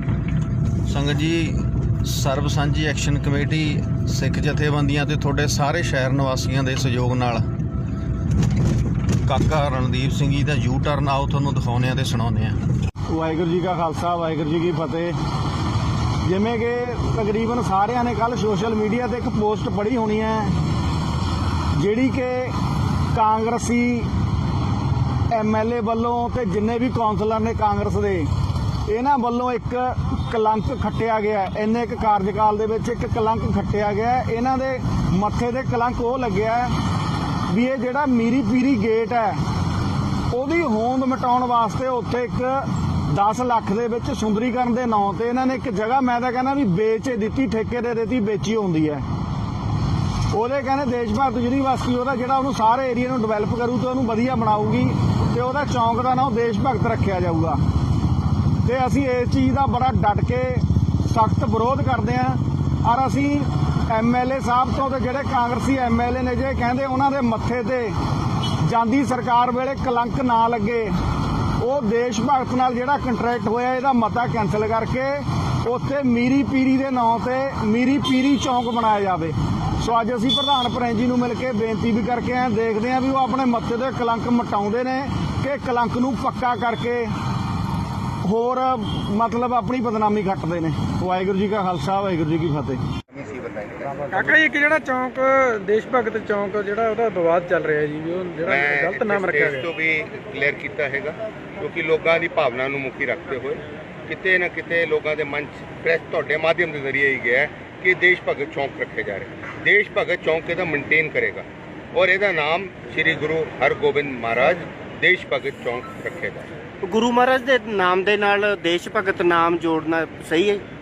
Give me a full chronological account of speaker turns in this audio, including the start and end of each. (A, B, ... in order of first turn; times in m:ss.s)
0:00.9-0:07.4 A
0:09.2-0:12.6 A
0:13.1-0:15.2 B
0:16.2-0:20.6 B
0:21.7-0:22.5 B
0:23.1-0:24.1 B
0:25.3-0:28.3 B
0:28.9-0:36.7 B
0:37.5-0:39.4 B
0:40.3-0:49.0 B
0:50.3-0:57.6 B
0:58.6-1:07.9 B
1:08.6-1:10.9 B
1:11.6-1:27.1 B
1:28.2-1:32.8 B
1:33.1-1:34.4 C
1:34.1-1:39.7 D
1:38.4-1:56.5 C
1:56.8-2:00.6 E